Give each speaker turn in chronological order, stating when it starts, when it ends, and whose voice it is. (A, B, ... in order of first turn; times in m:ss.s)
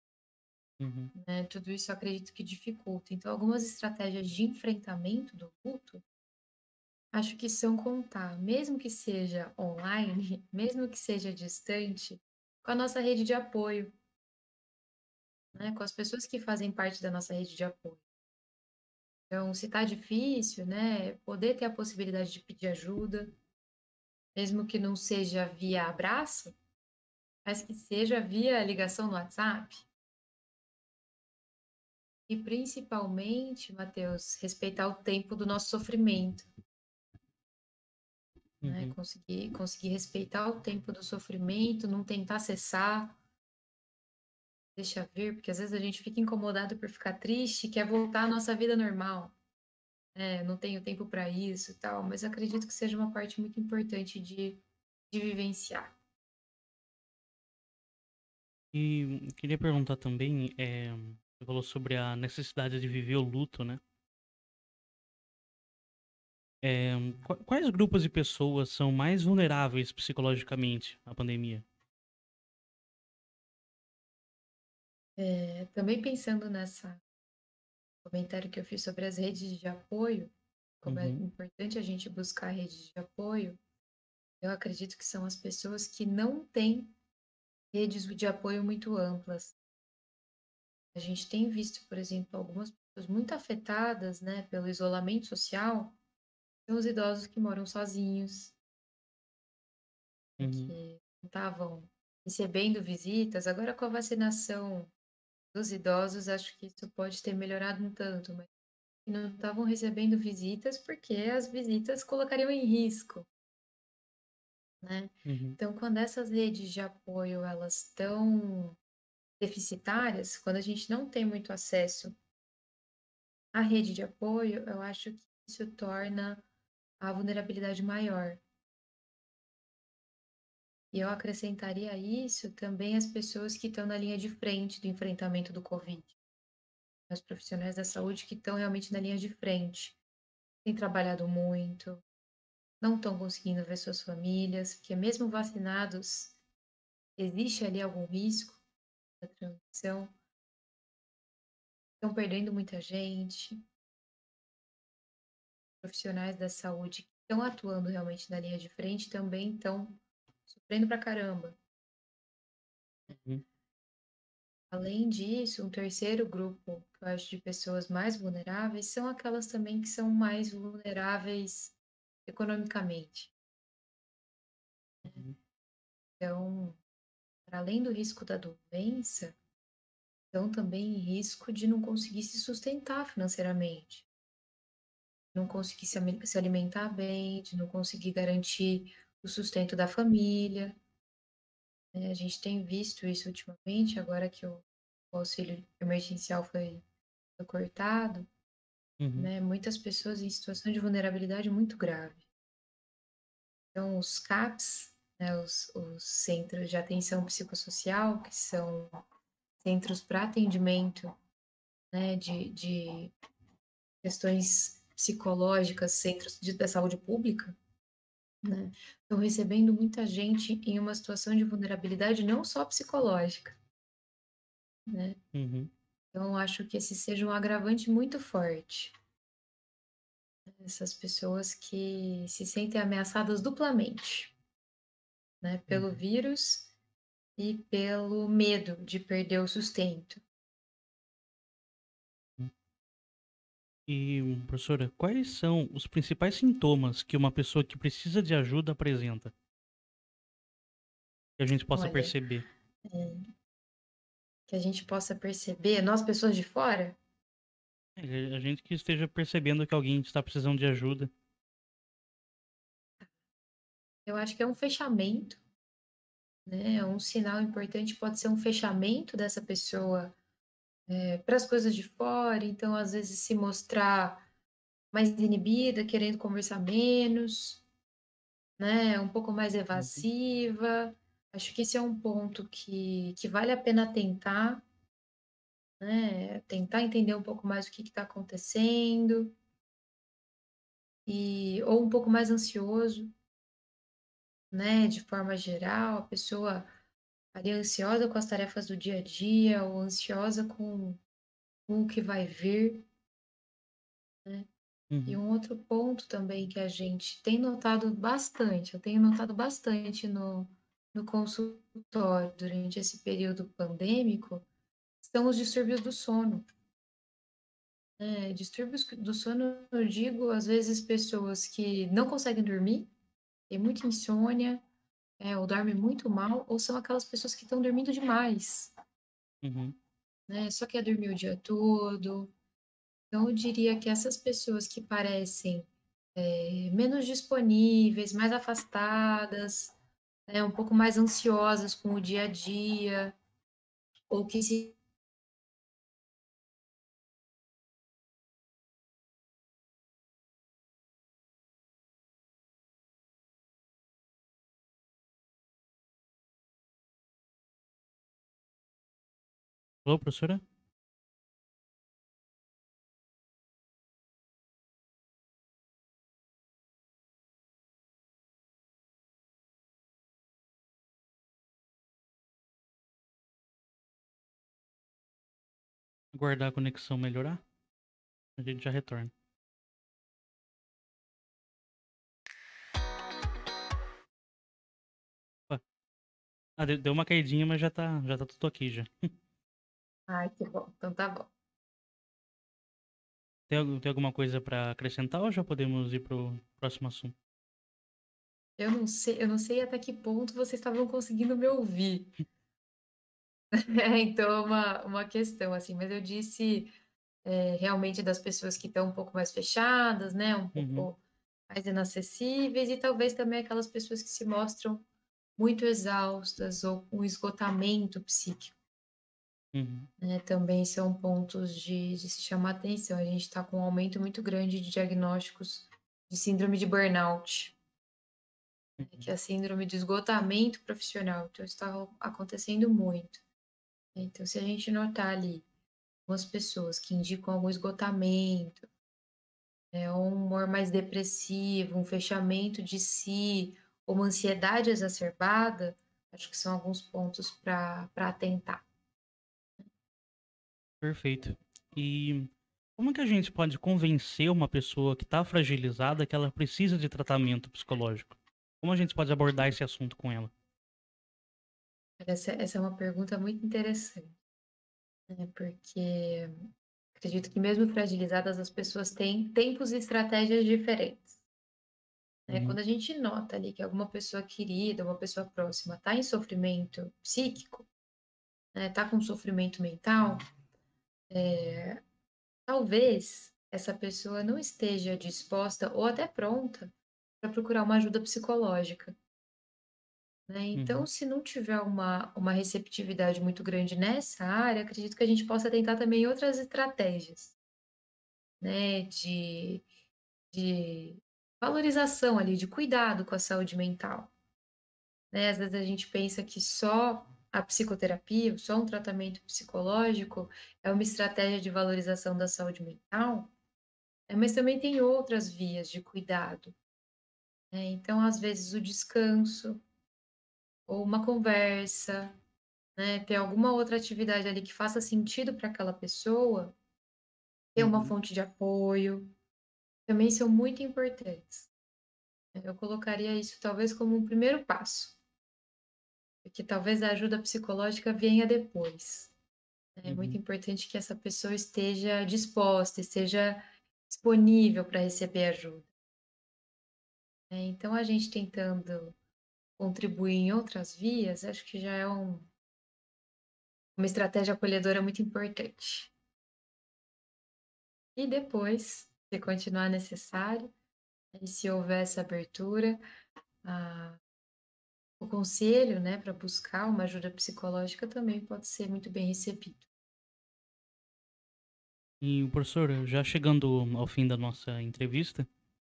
0:00.8-0:01.1 A
0:01.1-0:06.0 B
0:07.1-0:13.9 B
0:15.5-0:18.0 B
0:19.3-0:23.3 B
0:24.3-0:26.6 B
0:27.4-0:29.8 B
0:32.3-0:36.5 B
0:38.6-0:38.9 A
0:38.6-0:43.2 B
0:44.8-0:49.3 B
0:50.1-0:55.9 B
0:58.7-1:03.8 A
1:06.6-1:11.6 A
1:15.2-1:17.0 B
1:18.0-1:23.6 B
1:20.8-1:21.2 A
1:24.4-1:26.9 B
1:27.7-1:29.5 B
1:30.9-1:36.0 B
1:36.7-1:38.5 B
1:40.4-1:44.9 B
1:40.4-1:40.7 A
1:45.5-1:48.5 B
1:49.0-1:53.3 B
1:54.8-1:58.8 B
1:55.2-1:55.6 A
1:59.4-2:02.2 B
2:03.5-2:06.4 B
2:07.0-2:08.4 B
2:10.9-2:16.1 B
2:17.1-2:20.0 B
2:20.6-2:22.0 B
2:22.8-2:26.3 B
2:27.2-2:28.6 B
2:29.2-2:30.1 B
2:32.0-2:33.6 B
2:35.8-2:41.6 B
2:43.1-2:43.4 A
2:44.7-2:53.3 B
2:55.0-2:55.4 A
2:56.2-2:56.8 B
2:57.5-2:59.3 B
3:00.3-3:04.0 B
3:05.3-3:10.8 B
3:11.9-3:16.8 B
3:17.4-3:18.3 B
3:19.0-3:19.3 A
3:19.2-3:22.2 B
3:23.7-3:29.0 B
3:29.6-3:31.1 B
3:31.9-3:33.1 B
3:34.0-3:37.6 B
3:38.4-3:43.5 B
3:44.9-3:45.2 B
3:45.3-3:45.7 A
3:46.1-3:48.9 B
3:50.5-3:54.3 B
3:55.4-3:56.7 B
3:55.7-3:56.0 A
3:57.4-4:00.2 B
4:03.9-4:09.3 A
4:11.4-4:12.4 A
4:11.7-4:12.1 B
4:12.8-4:13.3 B
4:14.5-4:17.0 B
4:18.0-4:21.1 A
4:24.0-4:25.4 B
4:26.4-4:30.1 B
4:30.9-4:34.2 B
4:34.9-4:37.6 B
4:38.6-4:44.6 B
4:39.7-4:40.0 A
4:45.8-4:49.4 B
4:51.0-4:53.1 B
4:54.5-4:56.7 B
4:57.3-5:01.0 B
5:01.7-5:02.8 B
5:04.9-5:05.2 A
5:05.0-5:14.4 B
5:15.0-5:16.4 B
5:18.0-5:22.9 B
5:23.5-5:24.6 B
5:25.2-5:28.7 B
5:29.4-5:29.8 A
5:30.3-5:32.3 B
5:33.1-5:39.7 B
5:40.3-5:43.2 B
5:44.1-5:44.8 B
5:59.8-6:00.4 A
6:16.1-6:17.4 A
6:18.4-6:19.1 A
6:26.6-6:29.1 A
6:30.1-6:31.3 B
6:33.5-6:37.1 A
6:38.6-6:42.2 B
6:43.5-6:46.7 B
6:47.2-6:54.8 B
6:50.5-6:50.9 A
6:55.4-6:58.5 B
6:59.5-6:59.9 A
7:00.0-7:07.5 B
7:08.8-7:09.1 A
7:08.8-7:13.2 B
7:13.9-7:15.4 B
7:16.1-7:18.7 B
7:19.7-7:28.6 B
7:30.8-7:40.3 A
7:42.0-7:44.2 B
7:45.1-7:51.2 B
7:52.3-7:57.7 B
7:52.3-7:52.6 A
7:58.5-8:00.2 B
8:01.1-8:01.8 B
8:02.5-8:08.9 B
8:10.3-8:17.3 B
8:10.5-8:10.9 A
8:18.4-8:19.6 B
8:20.3-8:24.1 B
8:25.1-8:33.3 B
8:34.1-8:36.5 B
8:37.5-8:39.6 B
8:40.7-8:42.1 B
8:42.8-8:46.6 B
8:47.5-8:49.1 B
8:47.6-8:47.9 A
8:49.9-8:51.5 B
8:52.3-8:55.0 B
8:56.2-8:59.1 B
8:59.8-9:05.7 B
8:59.8-9:00.2 A
9:07.3-9:09.0 B
9:09.6-9:12.3 B
9:13.8-9:15.9 B
9:18.0-9:20.5 B
9:21.1-9:22.8 B
9:23.4-9:24.0 B
9:25.0-9:29.6 B
9:32.0-9:35.3 A